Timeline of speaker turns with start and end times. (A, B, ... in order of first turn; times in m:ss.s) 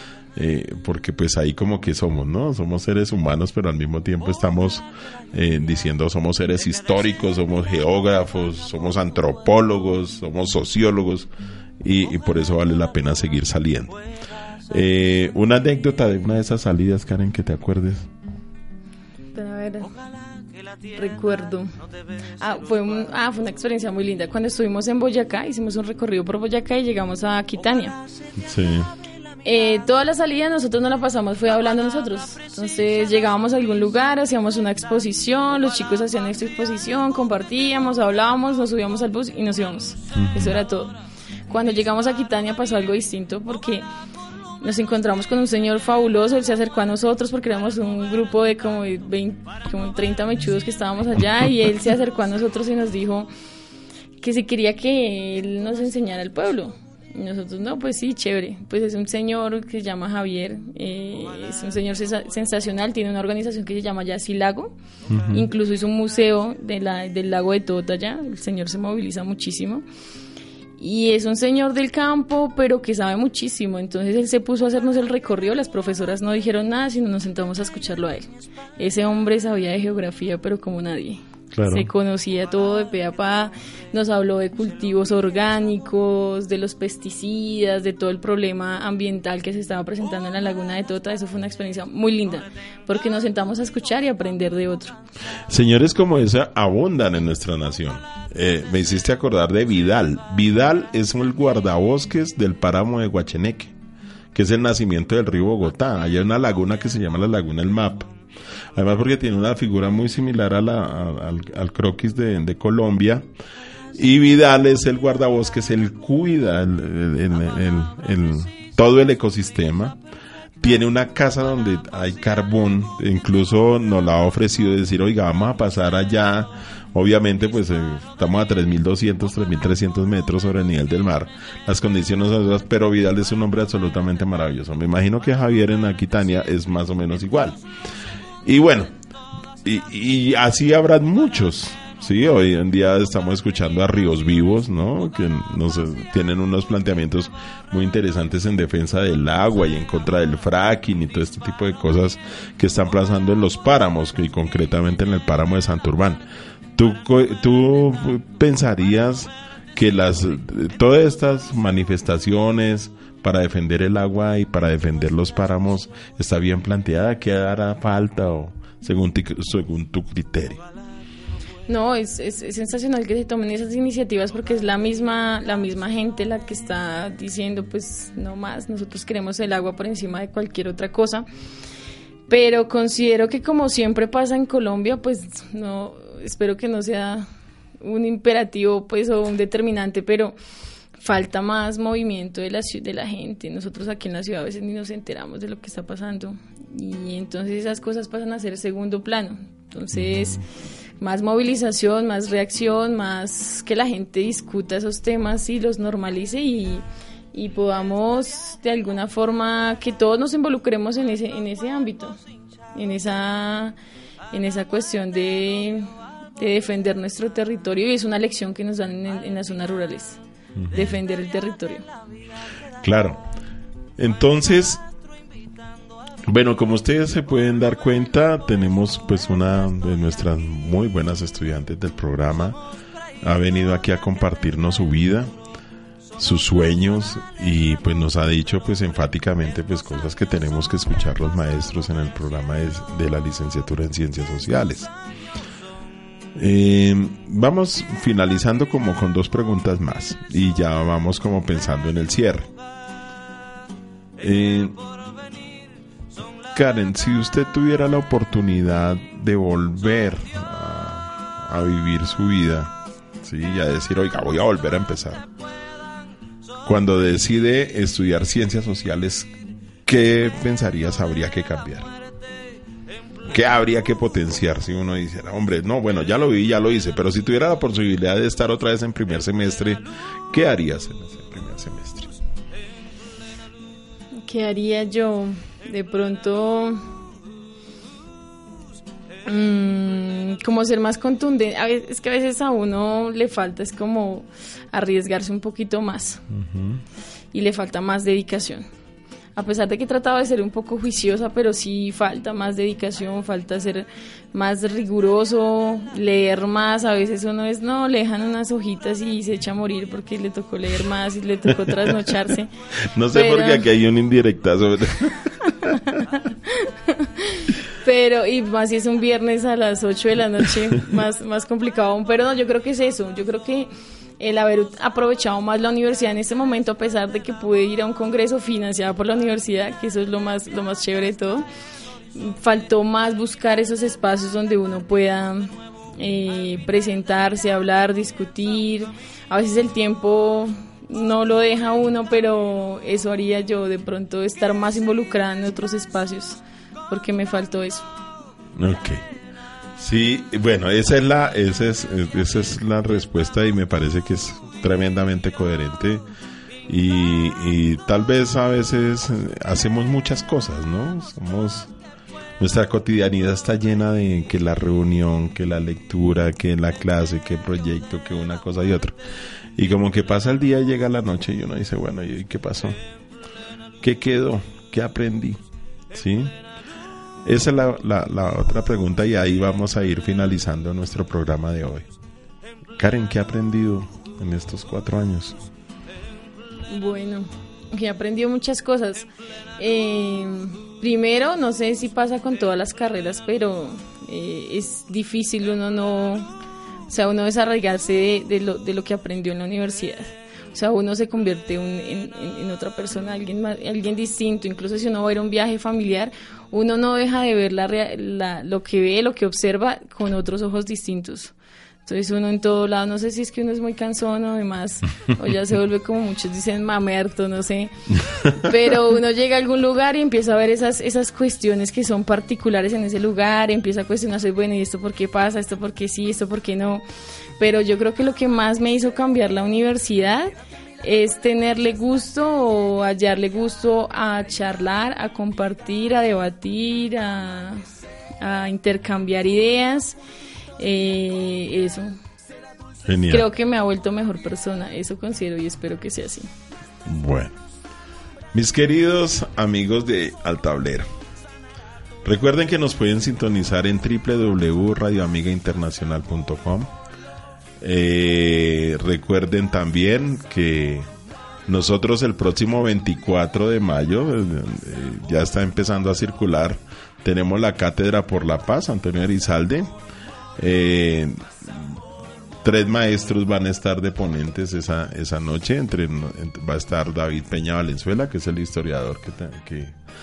0:00.3-0:11.3 A
0:11.8-0:14.0 A
0:14.7-0:18.1 A
0:19.3-0:20.0 B
0:20.9-0:21.8 B
0:22.4-0:28.0 B
0:28.4-0:28.9 A
0:29.4-0:40.9 B
0:40.1-0:40.6 A
0:41.5-0:43.9 B
0:44.6-0:53.3 B
0:54.2-1:04.7 B
1:05.1-1:05.4 A
1:05.3-1:09.8 B
1:10.8-1:35.0 B
1:21.5-1:21.9 A
1:35.5-1:43.7 A
1:44.3-1:48.1 A
1:48.7-1:53.3 A
1:53.9-2:00.0 A
2:00.6-2:17.6 A
2:18.4-2:18.9 A
2:19.6-2:36.2 A
2:36.7-2:50.6 A
2:51.7-3:01.2 B
3:02.3-3:07.3 B
3:07.8-3:10.4 B
3:11.0-3:20.4 B
3:19.9-3:20.4 A
3:21.0-3:32.2 B
3:32.7-3:33.8 B
3:34.3-3:41.8 B
3:40.6-3:41.0 A
3:42.8-3:43.2 A
3:44.0-3:44.8 A
3:46.3-3:52.6 A
3:53.2-3:55.3 A
3:56.2-4:04.9 A
4:06.3-4:12.5 A
4:14.2-4:14.8 A
4:16.5-4:25.2 A
4:26.6-4:29.3 A
4:29.8-4:31.9 A
4:33.2-4:42.1 A
4:44.2-4:46.8 B
4:49.2-4:56.2 B
4:56.3-4:56.8 A
4:57.3-4:58.6 B
4:59.4-5:12.5 B
5:12.9-5:15.7 A
5:13.1-5:13.6 B
5:15.6-5:31.5 B
5:32.1-5:47.8 B
5:48.6-5:49.0 A
5:49.8-5:56.0 A
5:56.7-6:01.7 A
6:02.4-6:09.0 A
6:09.6-6:12.8 A
6:13.8-6:16.3 A
6:17.2-6:21.9 A
6:22.8-6:25.4 A
6:26.7-6:36.3 B
6:36.9-7:06.8 B
7:07.4-7:17.6 B
7:18.2-7:20.0 B
7:20.6-7:22.0 B
7:22.8-7:23.3 A
7:23.1-7:26.3 B
7:26.8-7:27.3 A
7:28.3-7:30.8 A
7:32.0-7:36.7 A
7:37.6-7:40.9 A
7:41.5-7:49.7 A
7:50.4-7:51.8 A
7:52.4-7:59.8 A